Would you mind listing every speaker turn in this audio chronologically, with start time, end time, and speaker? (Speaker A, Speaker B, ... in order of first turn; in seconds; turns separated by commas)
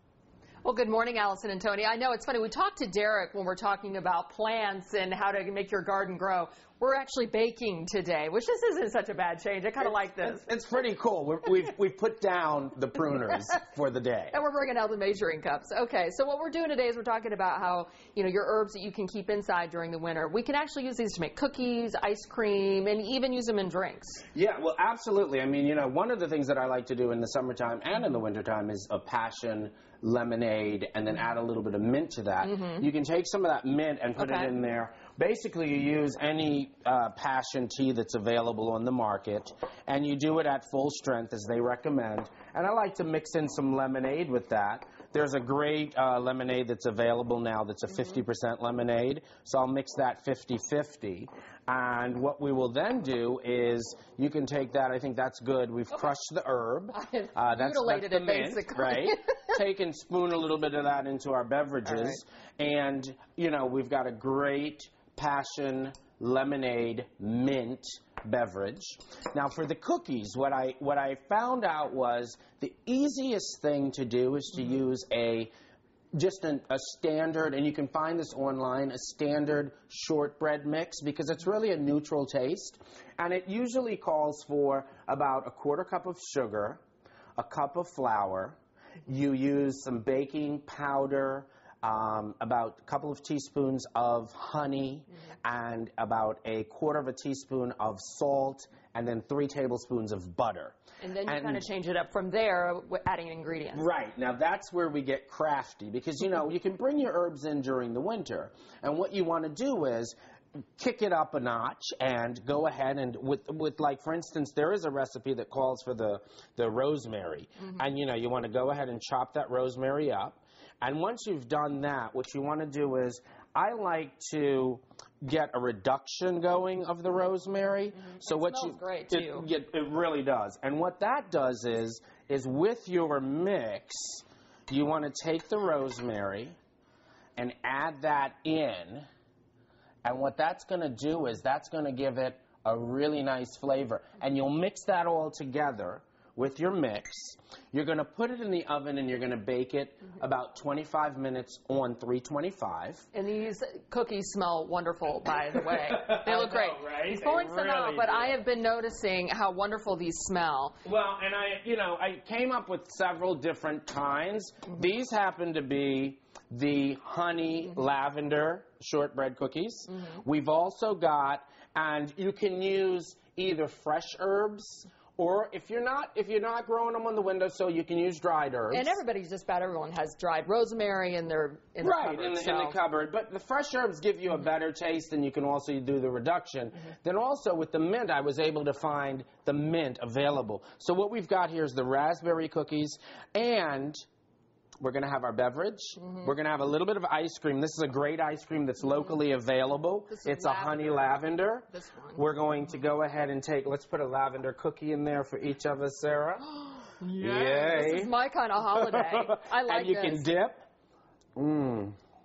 Speaker A: 0.6-10.5, Speaker B: 10.2-14.4, Speaker A: 14.3-24.2, Speaker B: 24.3-75.5, Speaker A: 32.4-32.9, Speaker A: 34.2-34.5, Speaker A: 56.9-59.4, Speaker A: 61.9-62.2, Speaker B: 76.2-86.8, Speaker B: 87.4-101.7, Speaker A: 101.0-103.8, Speaker B: 103.7-110.2, Speaker B: 110.8-136.6, Speaker A: 128.0-129.5, Speaker B: 137.4-139.1, Speaker B: 140.0-153.1, Speaker A: 153.1-160.8, Speaker B: 155.9-158.3, Speaker B: 160.8-179.0, Speaker A: 178.7-182.8, Speaker B: 181.8-194.0, Speaker B: 194.8-206.5, Speaker A: 200.1-202.5, Speaker A: 206.8-210.3, Speaker B: 207.2-208.1, Speaker B: 208.9-210.6, Speaker B: 211.4-212.0